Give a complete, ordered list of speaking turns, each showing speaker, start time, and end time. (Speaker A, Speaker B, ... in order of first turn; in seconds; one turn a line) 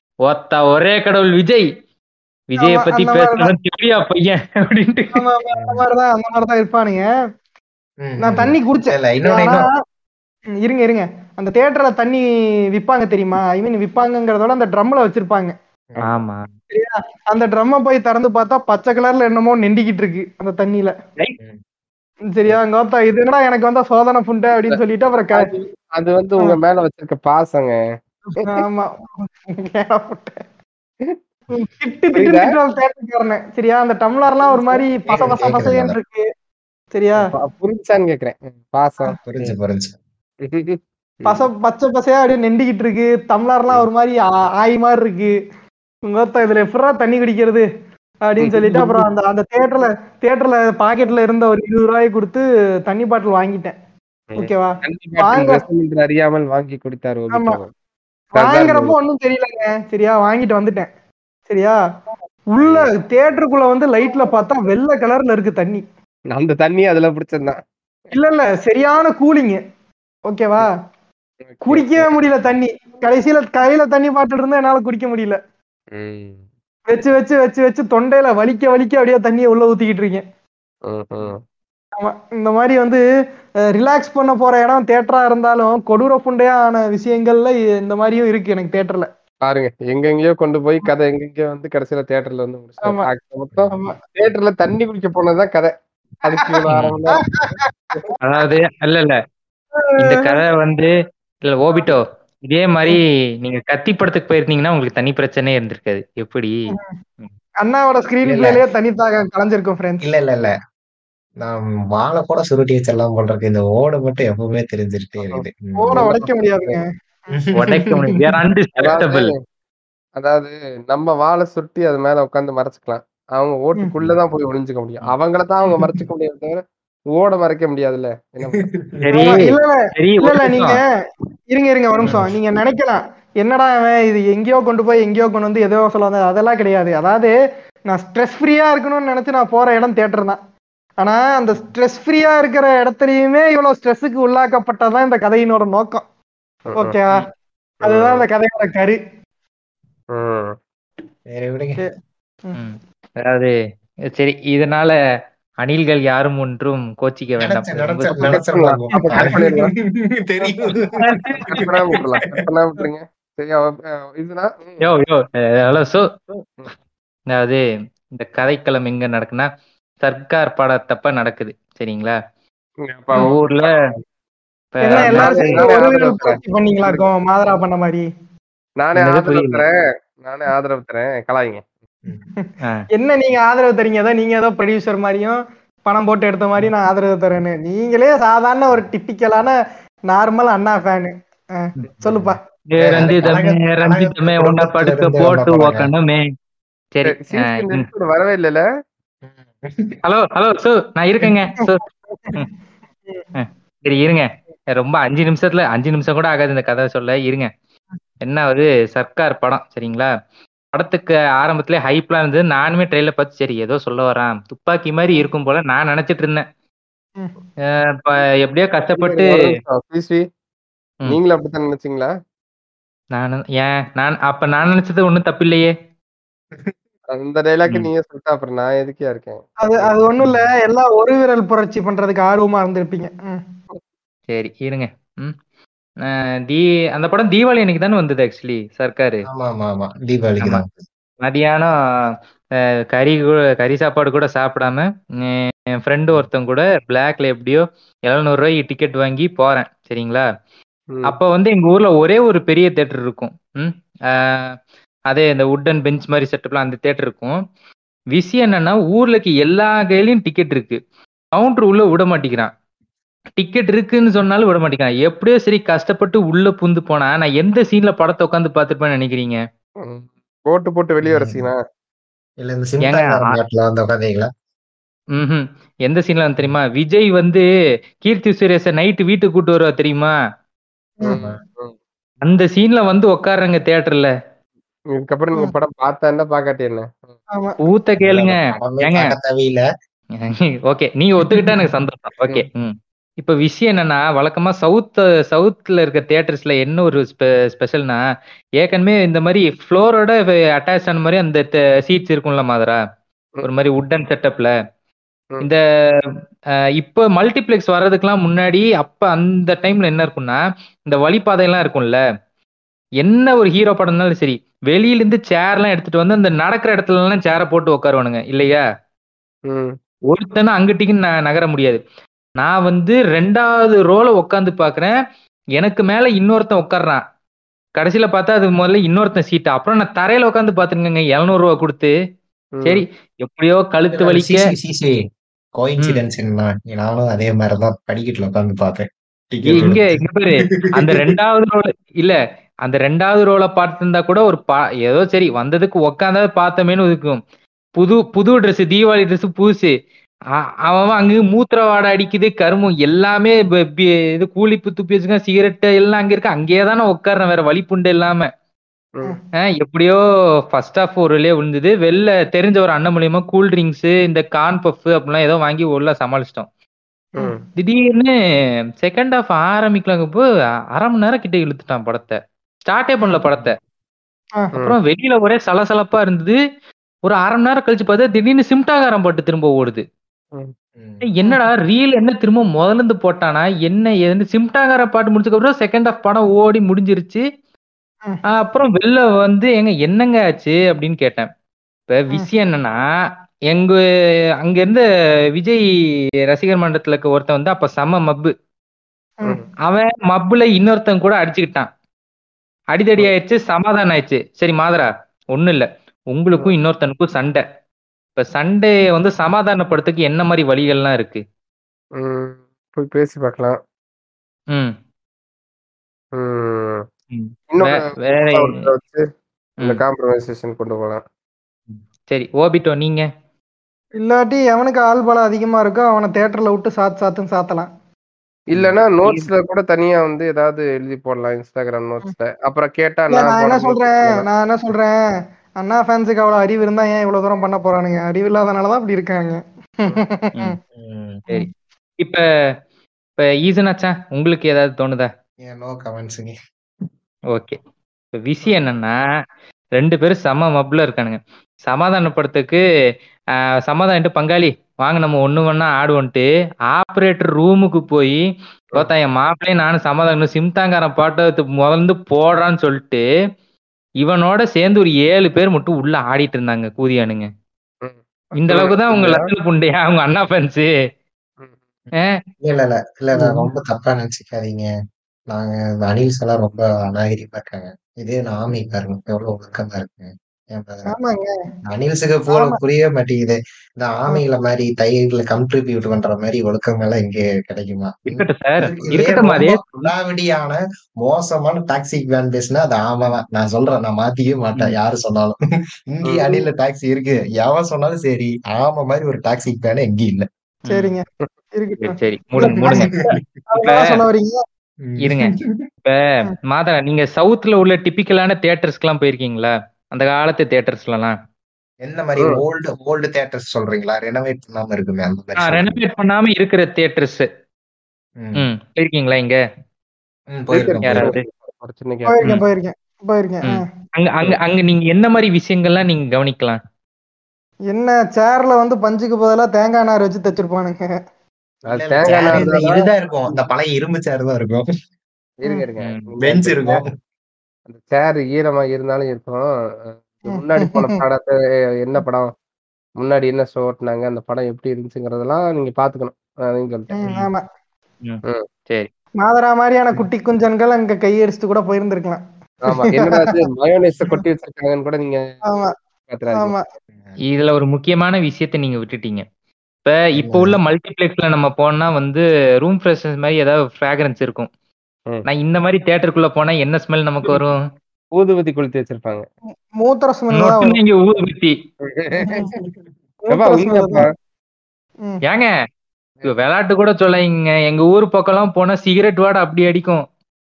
Speaker A: 0.2-1.7
Speaker A: 2.5-5.2
Speaker B: 2.6-3.5
Speaker B: 5.1-7.0
Speaker C: 5.6-5.8
Speaker C: 8.0-9.7
Speaker B: 8.2-9.7
Speaker B: 10.6-12.2
Speaker B: 12.8-15.5
Speaker A: 16.0-16.5
Speaker B: 16.7-20.9
Speaker B: 22.3-25.5
Speaker D: 25.3-27.7
Speaker B: 28.4-30.4
Speaker B: 31.5-36.2
Speaker D: 32.1-32.5
Speaker C: 35.1-36.0
Speaker B: 36.9-37.3
Speaker D: 37.2-39.5
Speaker C: 39.2-39.9
Speaker D: 40.4-41.5
Speaker B: 41.2-45.3
Speaker B: 46.1-47.6
Speaker B: 48.3-53.7
Speaker D: 48.4-49.0
Speaker D: 54.3-57.7
Speaker B: 54.4-55.6
Speaker B: 57.3-57.6
Speaker D: 58.4-59.0
Speaker B: 58.4-60.9
Speaker B: 61.5-61.7
Speaker B: 62.5-65.8
Speaker D: 62.6-62.9
Speaker D: 66.3-67.6
Speaker B: 68.1-69.6
Speaker B: 70.3-70.7
Speaker D: 71.5-72.1
Speaker B: 71.7-75.4
Speaker D: 75.9-76.4
Speaker B: 76.9-80.2
Speaker D: 80.9-81.4
Speaker B: 82.0-83.0
Speaker B: 83.7-89.1
Speaker D: 89.4-97.2
Speaker B: 96.3-96.6
Speaker A: 96.7-97.0
Speaker B: 97.2-98.1
Speaker A: 98.2-99.2
Speaker B: 99.8-100.4
Speaker A: 100.0-100.9
Speaker A: 101.4-107.3
Speaker B: 107.6-110.1
Speaker C: 108.2-108.6
Speaker C: 110.0-110.5
Speaker C: 111.4-116.1
Speaker B: 115.8-116.8
Speaker D: 115.9-116.8
Speaker C: 117.4-118.1
Speaker A: 117.5-119.3
Speaker D: 118.8-119.4
Speaker D: 120.2-126.6
Speaker D: 127.1-128.7
Speaker C: 128.4-129.0
Speaker A: 129.0-130.8
Speaker B: 129.1-130.8
Speaker B: 131.5-137.3
Speaker B: 137.9-140.4
Speaker B: 141.0-146.0
Speaker D: 146.7-146.9
Speaker B: 146.8-147.3
Speaker D: 147.8-148.2
Speaker B: 147.8-149.0
Speaker D: 150.1-150.6
Speaker C: 151.3-151.8
Speaker A: 152.5-153.5
Speaker A: 154.1-154.9
Speaker A: 155.6-158.4
Speaker C: 157.4-161.7
Speaker D: 158.2-159.7
Speaker B: 158.9-159.6
Speaker A: 161.0-161.3
Speaker D: 161.5-164.8
Speaker A: 164.8-166.1
Speaker A: 167.3-167.6
Speaker A: 168.1-169.5
Speaker A: 170.0-172.1
Speaker D: 172.8-173.3
Speaker A: 173.2-173.9
Speaker A: 174.7-175.7
Speaker B: 174.8-178.0
Speaker D: 174.9-177.1
Speaker D: 178.8-181.6
Speaker A: 178.9-179.6
Speaker B: 182.4-189.5
Speaker B: 190.1-192.4
Speaker C: 192.0-195.9
Speaker A: 192.7-196.2
Speaker A: 196.9-197.9
Speaker D: 197.1-198.6
Speaker C: 199.3-200.0
Speaker A: 200.0-201.8
Speaker B: 202.1-202.3
Speaker A: 203.3-207.5
Speaker A: 208.2-210.1
Speaker A: 210.7-216.4
Speaker A: 217.7-219.5
Speaker D: 219.0-220.2
Speaker D: 221.1-222.1
Speaker A: 223.1-225.7
Speaker D: 227.1-229.4
Speaker B: 229.6-233.4
Speaker A: 234.3-235.3
Speaker A: 236.0-239.3
Speaker C: 239.3-240.8
Speaker A: 241.2-242.1
Speaker A: 242.9-250.2
Speaker A: 251.0-254.6
Speaker A: 255.1-257.4
Speaker A: 258.1-260.8
Speaker A: 261.3-262.5
Speaker A: 263.4-269.4
Speaker D: 269.8-271.6
Speaker C: 271.0-271.4
Speaker C: 272.4-274.3
Speaker A: 272.8-273.4
Speaker A: 275.1-277.4
Speaker A: 278.0-280.1
Speaker D: 281.1-281.7
Speaker C: 281.1-281.4
Speaker A: 282.2-284.1
Speaker D: 285.0-287.1
Speaker A: 287.6-289.1
Speaker C: 288.0-289.6
Speaker A: 290.2-298.0
Speaker A: 298.6-302.8
Speaker A: 303.4-304.5
Speaker A: 305.4-306.1
Speaker A: 306.8-312.0
Speaker A: 313.0-318.6
Speaker D: 319.5-319.7
Speaker A: 320.1-321.8
Speaker A: 322.4-324.9
Speaker A: 325.6-327.0
Speaker A: 327.8-331.9
Speaker D: 332.5-332.8
Speaker A: 332.6-334.5
Speaker C: 333.9-335.0
Speaker C: 335.6-340.0
Speaker A: 335.8-336.0
Speaker A: 339.4-347.2
Speaker C: 340.8-341.1
Speaker A: 347.8-349.7
Speaker A: 350.7-358.3
Speaker A: 359.4-360.0
Speaker A: 360.5-366.5
Speaker A: 367.6-368.1
Speaker A: 368.8-373.6
Speaker A: 374.6-376.4
Speaker A: 377.0-379.8
Speaker C: 380.8-381.0
Speaker A: 381.0-387.2
Speaker A: 388.3-391.3
Speaker A: 391.9-392.8
Speaker A: 393.5-393.8
Speaker A: 394.4-395.6
Speaker A: 396.3-398.3
Speaker A: 399.6-401.7
Speaker A: 402.7-407.4
Speaker A: 408.1-411.2
Speaker D: 412.0-413.6
Speaker D: 416.1-416.9
Speaker A: 417.1-418.6
Speaker D: 417.5-419.0
Speaker D: 419.6-421.0
Speaker A: 421.7-423.1
Speaker B: 424.0-427.7
Speaker D: 428.5-434.3
Speaker A: 428.5-429.3
Speaker B: 433.1-434.9
Speaker B: 435.6-440.6
Speaker C: 440.7-441.2
Speaker A: 443.2-445.1
Speaker C: 445.4-446.4
Speaker A: 447.3-447.6
Speaker A: 448.1-448.9
Speaker A: 449.7-452.6
Speaker A: 453.7-458.2
Speaker A: 458.7-463.0
Speaker A: 464.0-467.3
Speaker D: 467.8-469.3
Speaker A: 468.3-470.7
Speaker A: 471.9-472.2
Speaker C: 472.4-474.7
Speaker C: 475.3-480.9
Speaker B: 480.9-481.3
Speaker C: 481.7-495.4
Speaker B: 482.3-482.6
Speaker A: 488.1-489.6
Speaker C: 495.9-500.3
Speaker A: 500.6-500.9
Speaker B: 500.7-501.0
Speaker B: 501.6-504.4
Speaker A: 501.9-502.9
Speaker C: 502.6-503.2
Speaker A: 503.6-504.0
Speaker C: 504.8-505.6
Speaker A: 505.0-505.3
Speaker A: 505.9-511.1
Speaker C: 511.8-515.7
Speaker A: 515.4-517.3
Speaker C: 518.2-518.5
Speaker A: 518.4-519.4
Speaker C: 520.3-521.1
Speaker D: 520.5-522.1
Speaker A: 520.8-521.2
Speaker B: 522.1-523.6
Speaker A: 523.4-526.6
Speaker B: 527.7-530.8
Speaker D: 531.7-532.9
Speaker C: 531.7-534.6
Speaker D: 535.4-536.8
Speaker C: 536.2-536.9
Speaker D: 537.7-542.3
Speaker B: 540.3-541.0
Speaker D: 543.0-547.0
Speaker B: 547.0-547.4
Speaker A: 548.0-548.9
Speaker B: 549.2-553.2
Speaker D: 552.7-555.4
Speaker D: 556.1-556.5
Speaker A: 557.2-559.2
Speaker A: 559.8-564.5
Speaker C: 560.2-560.6
Speaker A: 565.2-567.6
Speaker D: 568.1-569.2
Speaker B: 569.5-570.8
Speaker A: 570.3-571.5
Speaker D: 571.8-572.7
Speaker B: 572.2-572.5
Speaker B: 573.3-574.1
Speaker D: 573.3-574.0
Speaker A: 575.2-575.5
Speaker A: 576.2-580.0